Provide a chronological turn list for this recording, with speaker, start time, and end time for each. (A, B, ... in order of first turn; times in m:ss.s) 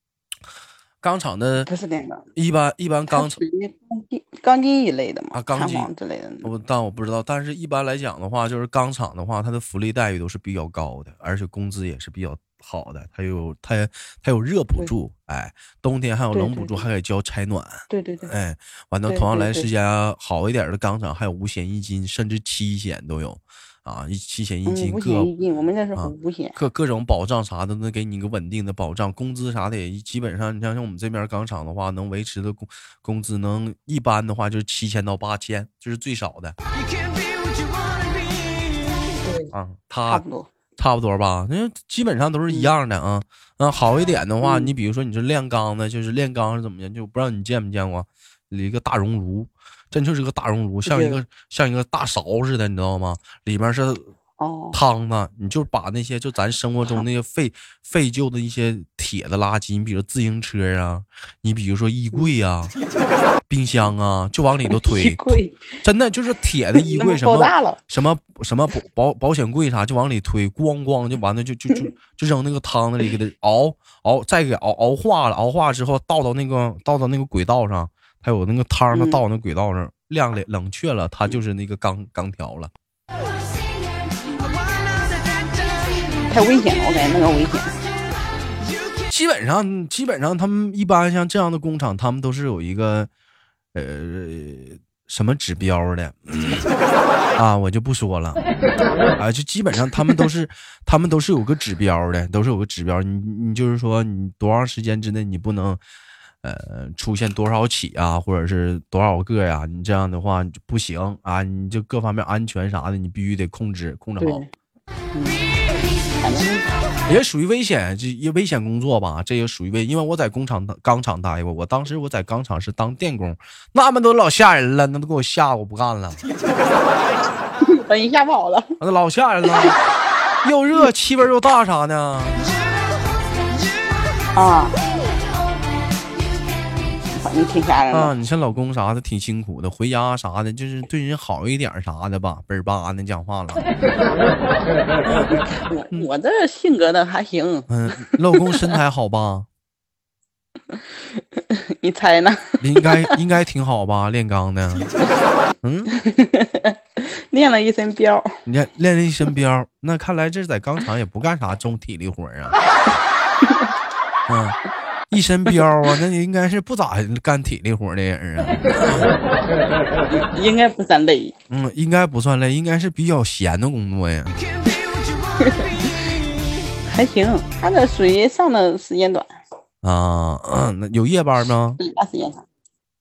0:01.0-0:01.7 A
0:01.6-0:02.2 B
0:02.3-0:03.4 A
0:03.1-0:06.5 B
0:05.3-0:05.9 A
0:06.4-0:25.3 A
0:16.3-0:16.8 B
0:17.9-0:18.3 B
0:19.1-0:19.7 B
0:24.6-0:26.6 B
0:26.0-0:36.6 A
0:36.7-0:39.2 C
0:39.2-0:39.5 B
0:39.5-0:40.2 A
0:40.1-0:40.5 B
0:40.8-0:54.1 A
0:44.4-0:44.7 B
0:50.8-0:51.2 B
0:54.4-0:54.8 B
0:54.7-1:02.7 A
1:03.5-1:22.7 A
1:04.7-1:05.8 B
1:06.7-1:07.8 B
1:18.9-1:19.2 B
1:24.4-1:26.2 C
1:26.3-1:27.8 B
1:29.1-1:33.1 A
1:33.7-1:36.7 A
1:37.4-1:38.4 A
1:39.2-1:45.8 A
1:46.4-1:54.4 A
1:54.2-1:54.5 B
1:55.1-1:55.4 B
1:56.2-1:56.7 B
1:57.1-2:06.2 A
2:07.6-2:08.8 B
2:08.8-2:09.8 A
2:10.4-2:12.4 A
2:14.3-2:14.8 B
2:17.1-2:18.1 B
2:17.9-2:23.6 A
2:25.0-2:25.3 A
2:25.3-2:28.7 B
2:27.7-2:29.5 A
2:30.7-2:33.2 B
2:32.6-2:34.9 A
2:35.6-2:35.9 A
2:35.9-2:38.4 B
2:38.4-2:42.6 A
2:44.3-2:44.6 A
2:45.1-2:49.1 A
2:50.1-2:51.3 B
2:51.5-2:54.4 A
2:54.3-2:56.7 C
2:56.9-2:59.3 B
2:59.8-3:01.8 A
3:01.8-3:02.4 B